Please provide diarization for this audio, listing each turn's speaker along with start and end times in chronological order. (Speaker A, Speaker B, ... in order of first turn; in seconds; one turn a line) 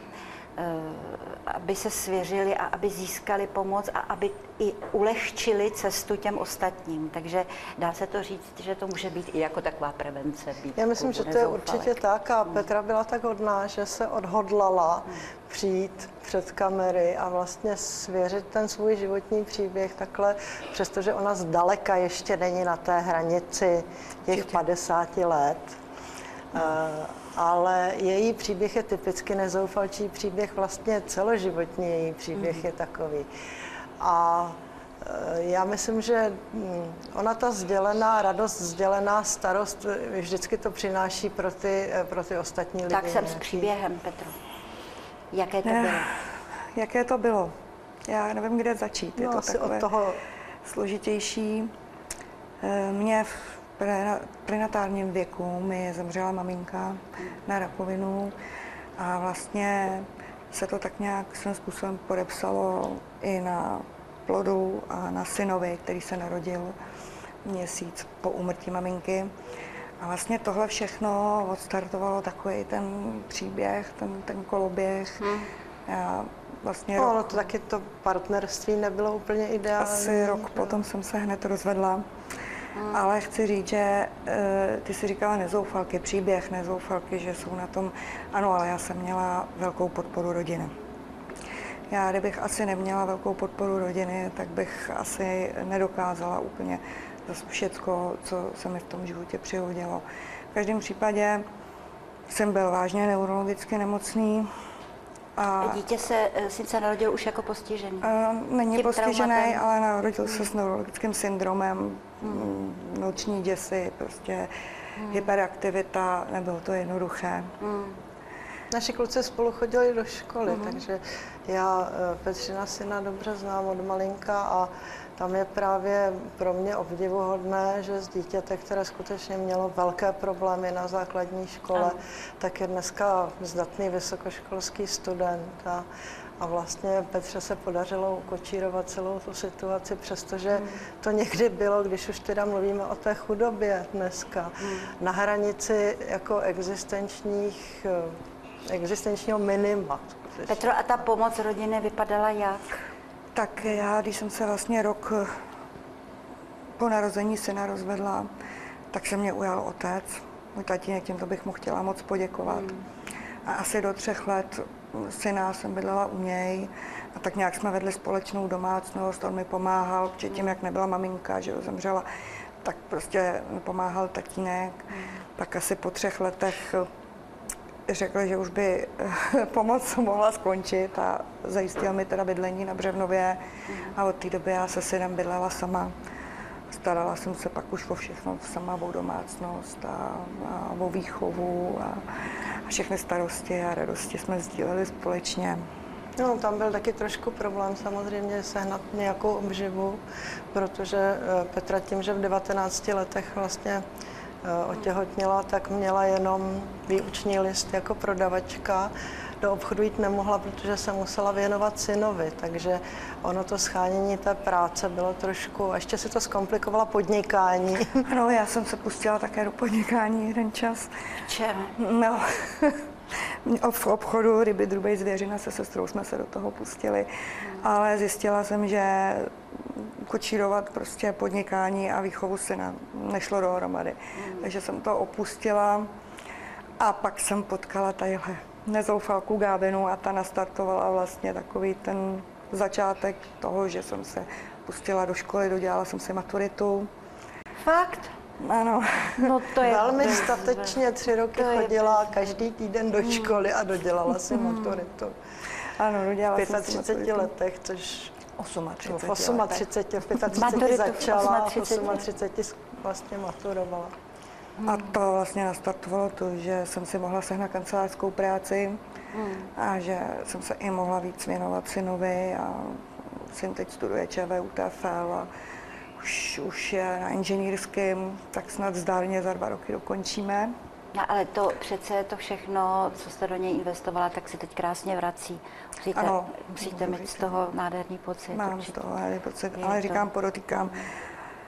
Speaker A: 0.6-12.0
Speaker B: 10.8-25.8
Speaker C: 24.3-24.6
Speaker B: 26.5-33.3
Speaker A: 32.4-32.6
Speaker B: 34.0-43.7
Speaker A: 42.9-44.4
Speaker A: 45.3-46.1
Speaker C: 45.6-46.1
Speaker C: 46.7-47.5
Speaker C: 48.1-49.9
Speaker B: 49.2-50.2
Speaker C: 50.6-51.7
Speaker C: 52.6-58.4
Speaker C: 59.0-66.8
Speaker C: 67.5-69.3
Speaker C: 70.0-75.3
Speaker A: 75.2-75.5
Speaker C: 75.9-77.4
Speaker B: 77.0-80.8
Speaker C: 79.8-82.0
Speaker A: 82.8-83.1
Speaker C: 82.9-90.7
Speaker C: 91.9-101.4
Speaker C: 102.3-104.5
Speaker C: 105.4-105.8
Speaker A: 105.6-108.1
Speaker C: 108.0-114.5
Speaker A: 108.8-109.6
Speaker A: 110.2-110.5
Speaker A: 112.2-112.6
Speaker A: 115.0-115.3
Speaker C: 115.1-117.5
Speaker A: 117.6-118.0
Speaker B: 118.7-135.8
Speaker A: 120.5-120.8
Speaker B: 136.4-148.2
Speaker A: 140.5-140.8
Speaker A: 144.6-144.9
Speaker B: 148.7-151.1
Speaker A: 150.5-152.8
Speaker C: 153.3-155.3
Speaker C: 156.8-158.3
Speaker C: 158.9-162.7
Speaker A: 162.5-162.8
Speaker C: 163.4-172.1
Speaker A: 170.3-170.6
Speaker C: 172.6-176.9
Speaker C: 177.9-185.9
Speaker A: 183.7-183.9
Speaker C: 186.7-195.6
Speaker B: 196.2-200.0
Speaker B: 200.5-203.8
Speaker B: 204.4-218.1
Speaker C: 218.1-220.9
Speaker A: 221.2-221.7
Speaker C: 221.8-222.9
Speaker C: 223.4-235.9
Speaker A: 227.4-227.7
Speaker A: 234.2-234.5
Speaker C: 236.8-246.9
Speaker A: 247.6-248.1
Speaker C: 248.4-249.5
Speaker A: 249.2-250.8
Speaker B: 249.6-255.2
Speaker A: 251.3-252.4
Speaker A: 253.1-253.4
Speaker A: 254.3-254.8
Speaker C: 255.8-257.3
Speaker B: 256.3-258.2
Speaker C: 258.4-260.4
Speaker B: 258.9-263.9
Speaker A: 260.3-262.1
Speaker A: 264.6-265.0
Speaker C: 264.6-268.8
Speaker A: 269.1-269.5
Speaker C: 269.6-275.3
Speaker C: 276.0-280.5
Speaker A: 280.9-288.8
Speaker C: 285.9-287.5
Speaker C: 288.3-290.8
Speaker A: 289.6-290.9